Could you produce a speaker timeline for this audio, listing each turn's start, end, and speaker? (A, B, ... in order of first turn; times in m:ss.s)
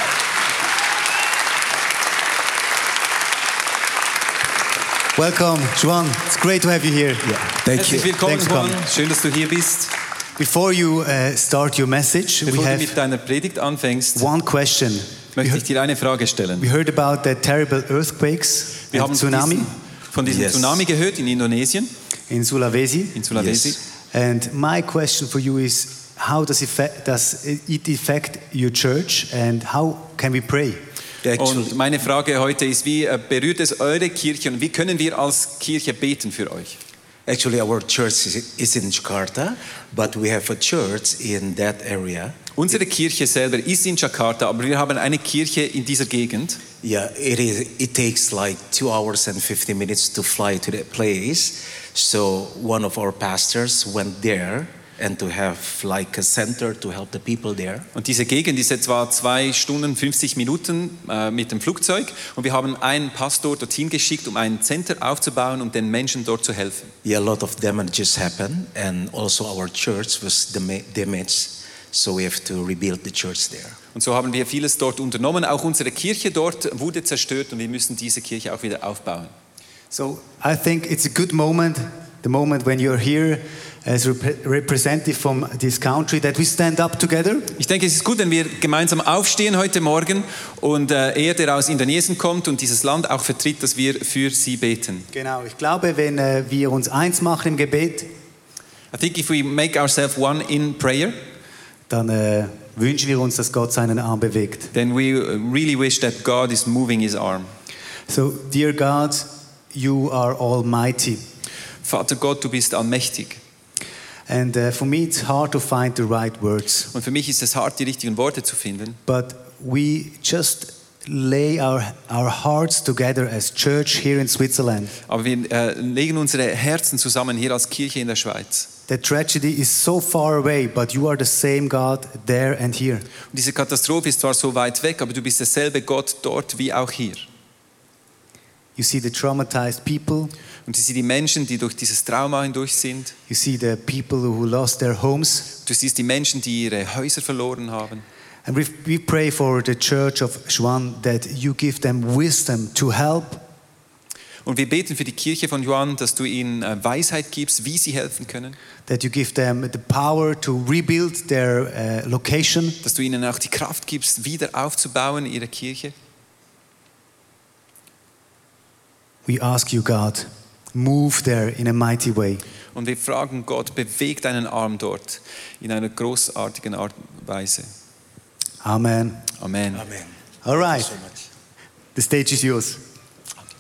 0:05.2-0:07.6 A
0:07.5-0:08.1 B
0:07.7-0:09.9 C
0:08.2-0:08.8 A
0:10.4-0:13.0 A
0:12.5-0:14.3 C
0:14.2-0:15.6 A
0:15.4-0:16.7 C
0:16.6-0:19.7 A
0:18.9-0:21.9 C
0:20.3-0:20.8 B
0:22.3-0:23.3 A
0:23.2-0:23.8 C
0:23.4-0:23.7 B
0:24.1-0:30.8 A
0:31.2-0:31.7 B
0:31.4-0:36.8 C
0:37.3-0:42.4 B
0:42.6-0:46.6 C
0:46.8-0:57.9 B
0:58.0-1:06.9 C
1:07.0-1:13.8 B
1:13.9-1:19.3 C
1:19.9-1:27.5 A
1:27.6-1:35.1 C
1:35.1-1:38.1 A
1:38.9-1:41.2 C
1:41.9-1:44.7 A
1:44.7-1:47.5 C
1:48.1-1:51.2 A
1:51.8-1:53.4 C
1:54.3-1:56.9 A
1:56.9-1:59.0 C
1:59.1-2:05.0 A
2:05.1-2:08.7 C
2:08.9-2:13.1 A
2:13.3-2:17.3 C
2:18.8-2:20.3 A
2:20.7-2:23.1 C
2:23.3-2:25.6 A
2:25.6-2:28.0 C
2:28.4-2:33.4 A
2:34.4-2:38.6 C
2:38.9-2:42.8 A
2:42.8-2:45.9 C
2:49.3-2:52.4 A
2:52.7-2:57.7 C
2:58.6-2:59.3 A
2:59.4-2:59.8 C
2:59.8-3:00.1 B
3:00.4-3:01.0 A
3:02.0-3:02.8 A